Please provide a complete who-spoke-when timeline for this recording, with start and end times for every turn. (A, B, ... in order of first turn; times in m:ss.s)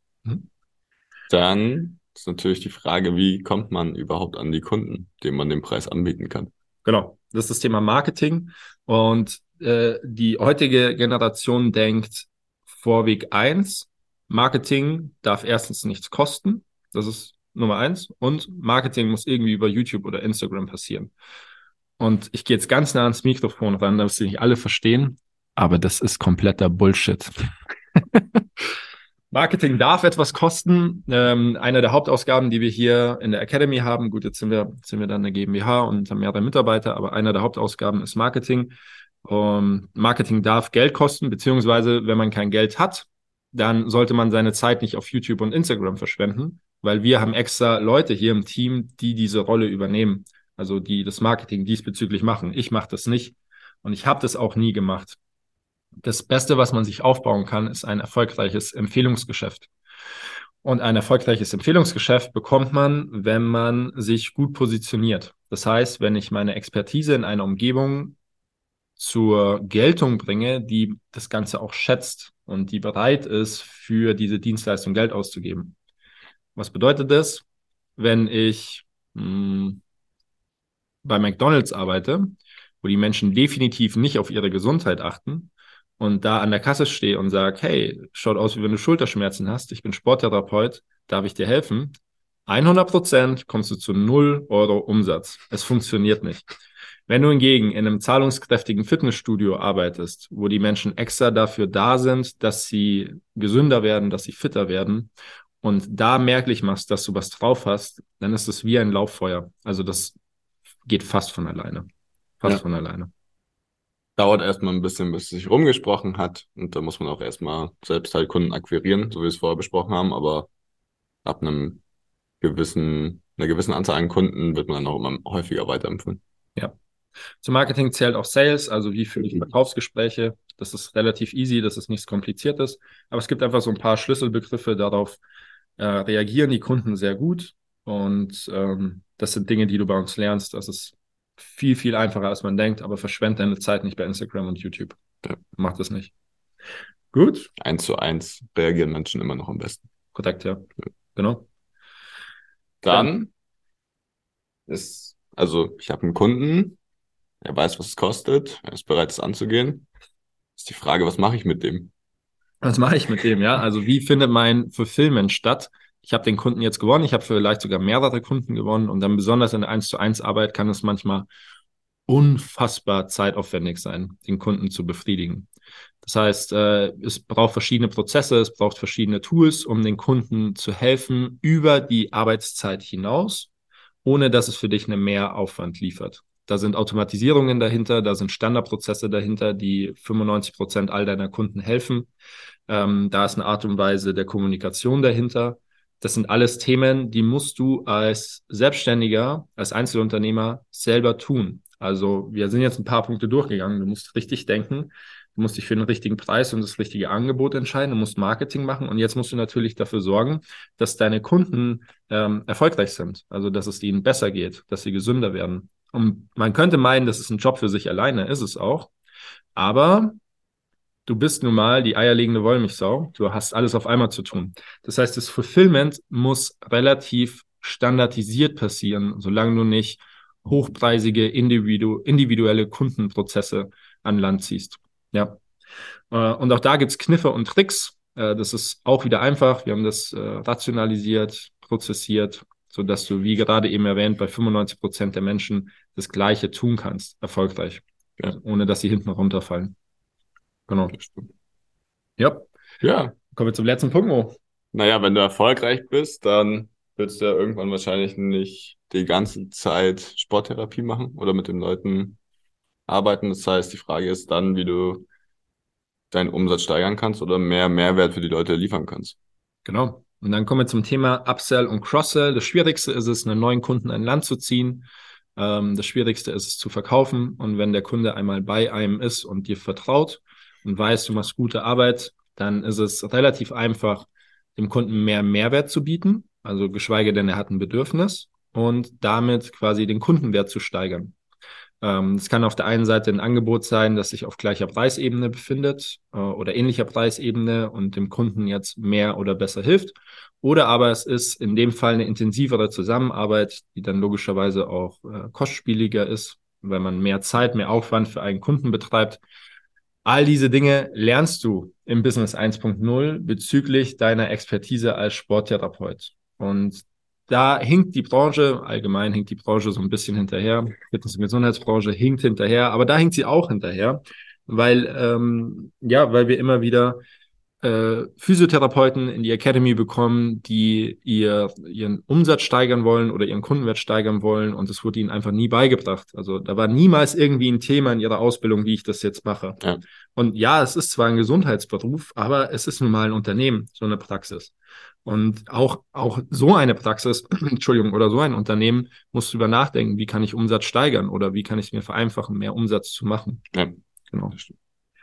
0:01.3-0:06.5 A
0:06.8-0:21.1 B
0:22.0-0:27.3 B
0:28.0-0:28.4 B
0:29.3-0:55.2 B
0:56.0-0:59.7 B
1:00.6-1:08.2 B
1:09.0-1:15.8 B
1:16.6-1:17.4 B
1:18.0-1:19.8 B
1:21.0-1:32.0 B
1:32.5-1:36.4 B
1:37.1-1:45.1 B
1:45.6-1:50.2 B
1:50.8-1:51.9 B
1:52.4-1:53.1 B
1:54.2-2:00.5 A
2:01.2-2:01.8 A
2:02.4-2:06.2 A
2:07.4-2:15.2 B
2:15.8-2:25.0 B
2:25.5-2:26.1 B
2:27.1-2:27.5 B
2:27.6-2:29.9 A
2:30.1-2:31.4 B
2:32.8-2:33.3 A
2:34.7-2:36.8 A
2:37.4-2:39.9 A
2:40.6-2:41.9 A
2:42.6-2:51.3 B
2:52.1-2:55.5 B
2:56.0-3:03.5 B
3:04.0-3:12.1 B
3:12.7-3:38.9 B
3:39.5-3:40.2 B
3:41.0-3:55.4 B
3:56.1-4:09.7 B
4:10.7-4:11.0 B
4:10.9-4:11.3 A
4:12.2-4:12.5 B
4:12.8-4:13.1 A
4:13.3-4:14.4 B
4:14.7-4:22.2 A
4:22.9-4:25.0 A
4:26.1-4:29.2 A
4:29.6-4:51.1 B
4:51.8-5:09.2 B
5:10.0-5:27.0 B
5:27.6-5:39.6 B
5:40.2-5:44.5 B
5:45.0-5:53.4 B
5:53.5-5:53.8 A